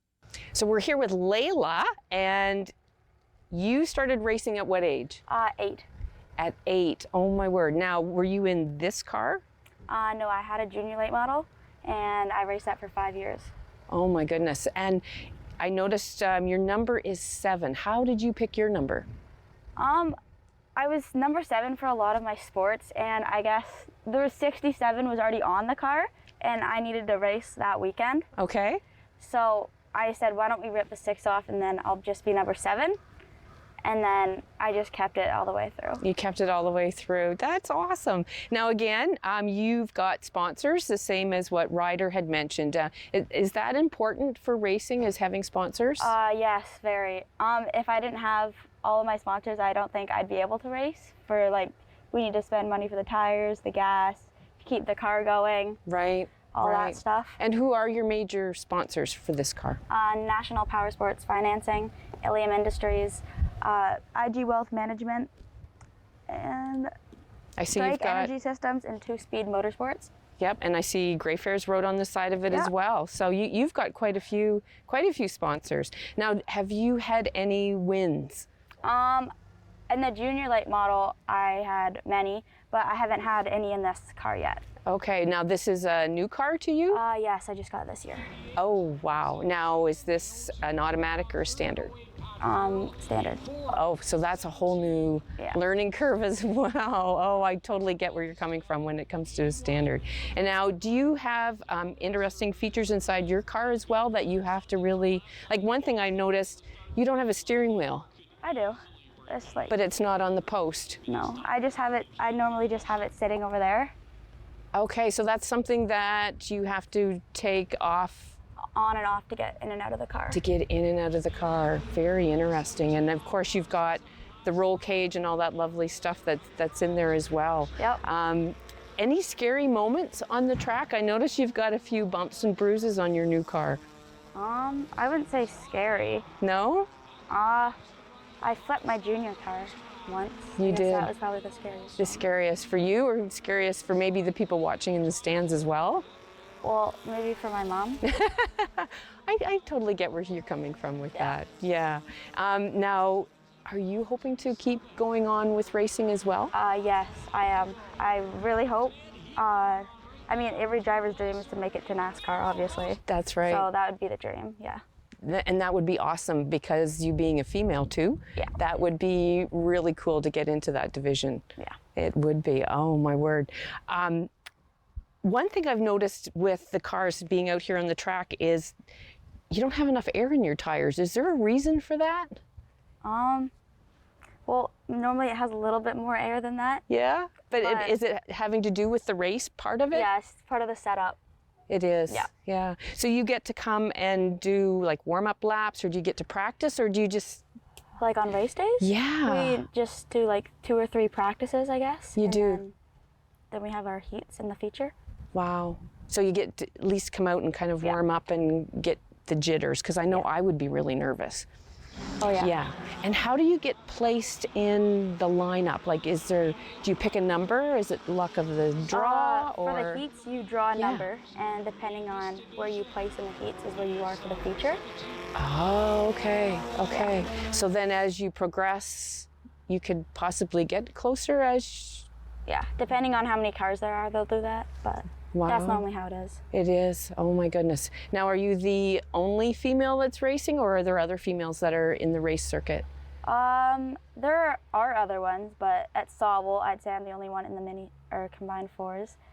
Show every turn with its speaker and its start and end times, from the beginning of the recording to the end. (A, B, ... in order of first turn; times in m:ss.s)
0:00.5-0:02.7 A
0:03.5-0:05.2 A
0:05.3-0:05.9 B
0:06.4-0:09.4 A
0:09.9-0:13.5 B
0:13.9-0:15.0 A
0:15.6-0:19.1 A
0:19.8-0:20.2 B
0:20.8-0:28.3 B
0:28.4-0:28.8 A
0:29.2-0:33.0 B
0:33.8-0:36.0 B
0:36.0-0:46.1 A
0:46.0-0:55.8 B
0:55.9-0:59.8 A
0:56.5-0:57.4 B
0:59.9-1:05.3 B
1:06.3-1:06.9 B
1:07.6-1:08.3 A
1:07.7-1:10.1 B
1:10.4-1:18.5 A
1:18.8-1:19.3 B
1:19.9-1:24.6 B
1:24.9-1:27.0 A
1:26.9-1:28.3 B
1:28.6-1:32.0 A
1:32.4-1:33.5 B
1:33.7-1:48.1 A
1:48.4-1:49.7 B
1:49.7-1:51.0 A
1:51.1-1:53.9 B
1:54.7-1:58.4 A
1:58.8-2:00.4 B
2:00.3-2:13.8 A
2:14.4-2:16.3 B
2:16.4-2:16.9 A
2:17.3-2:17.8 B
2:18.4-2:22.2 B
2:20.6-2:21.1 A
2:22.0-2:26.1 A
2:26.6-2:28.0 B
2:28.0-2:36.5 A
2:36.5-2:44.8 B
2:43.1-2:43.7 A
2:45.2-2:54.3 A
2:55.2-2:58.7 A
2:59.5-3:02.4 A
3:03.0-3:03.5 B
3:04.5-3:06.8 B
3:06.9-3:10.1 A
3:07.6-3:07.9 B
3:09.9-3:11.2 B
3:11.7-3:17.4 A
3:18.0-3:22.8 B
3:18.8-3:19.6 A
3:22.2-3:22.6 A
3:23.5-3:24.9 B
3:25.3-3:31.5 A
3:32.2-3:32.5 B
3:32.4-3:40.0 A
3:38.9-3:44.8 B
3:40.8-3:41.1 A
3:45.4-3:52.1 A
3:52.5-3:56.4 B
3:55.3-3:55.8 A
3:56.5-4:02.9 A
4:03.2-4:09.2 B